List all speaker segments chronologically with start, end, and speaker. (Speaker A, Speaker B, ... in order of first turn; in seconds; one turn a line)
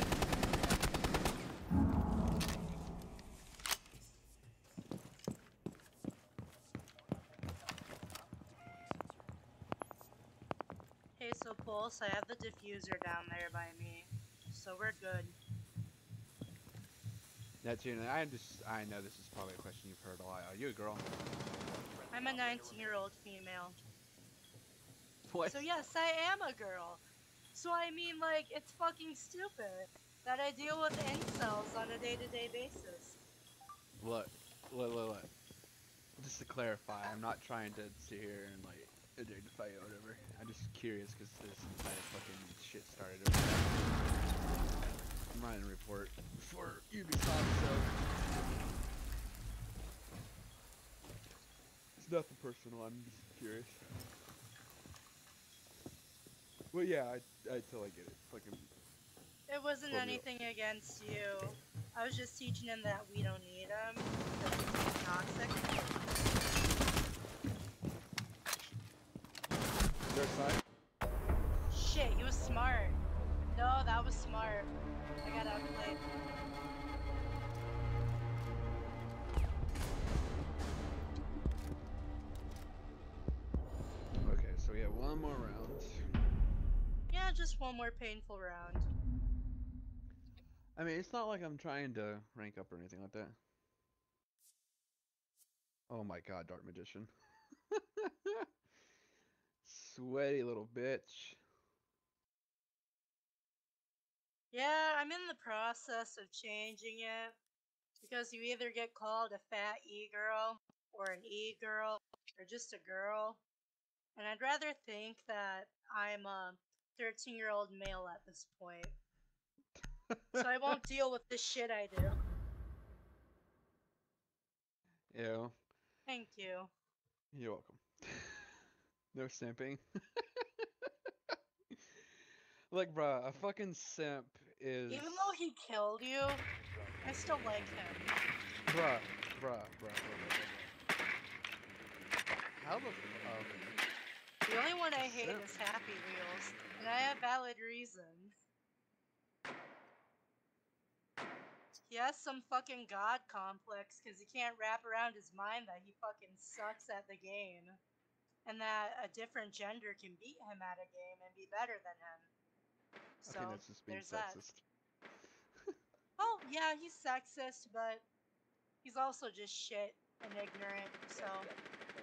Speaker A: 11.2-15.3
Speaker B: 17.6-21.1
Speaker A: 22.1-23.8
Speaker B: 25.3-25.7
Speaker A: 25.4-27.0
Speaker A: 27.5-33.2
Speaker B: 34.0-35.3
Speaker B: 36.2-44.0
Speaker B: 45.3-48.0
Speaker B: 52.0-53.8
Speaker B: 56.7-58.7
Speaker A: 59.5-65.7
Speaker B: 59.9-60.4
Speaker B: 70.1-70.6
Speaker A: 71.7-74.7
Speaker A: 75.2-76.0
Speaker B: 84.2-86.0
Speaker A: 87.1-88.9
Speaker B: 90.8-93.3
Speaker B: 95.9-97.1
Speaker B: 97.7-98.5
Speaker B: 99.6-101.4
Speaker A: 104.5-107.4
Speaker A: 108.0-113.4
Speaker A: 114.1-119.0
Speaker B: 120.1-120.5
Speaker A: 120.3-122.2
Speaker B: 125.1-125.5
Speaker A: 126.1-126.7
Speaker B: 127.3-128.6
Speaker B: 129.1-131.8
Speaker B: 132.7-135.4
Speaker A: 134.9-136.4
Speaker A: 137.0-138.1
Speaker B: 138.7-140.7
Speaker B: 142.5-143.8
Speaker A: 144.4-148.3
Speaker B: 145.0-145.5
Speaker A: 151.9-157.8
Speaker A: 158.4-162.3
Speaker A: 163.2-164.4
Speaker B: 163.3-164.6
Speaker A: 166.2-168.1
Speaker A: 168.8-171.5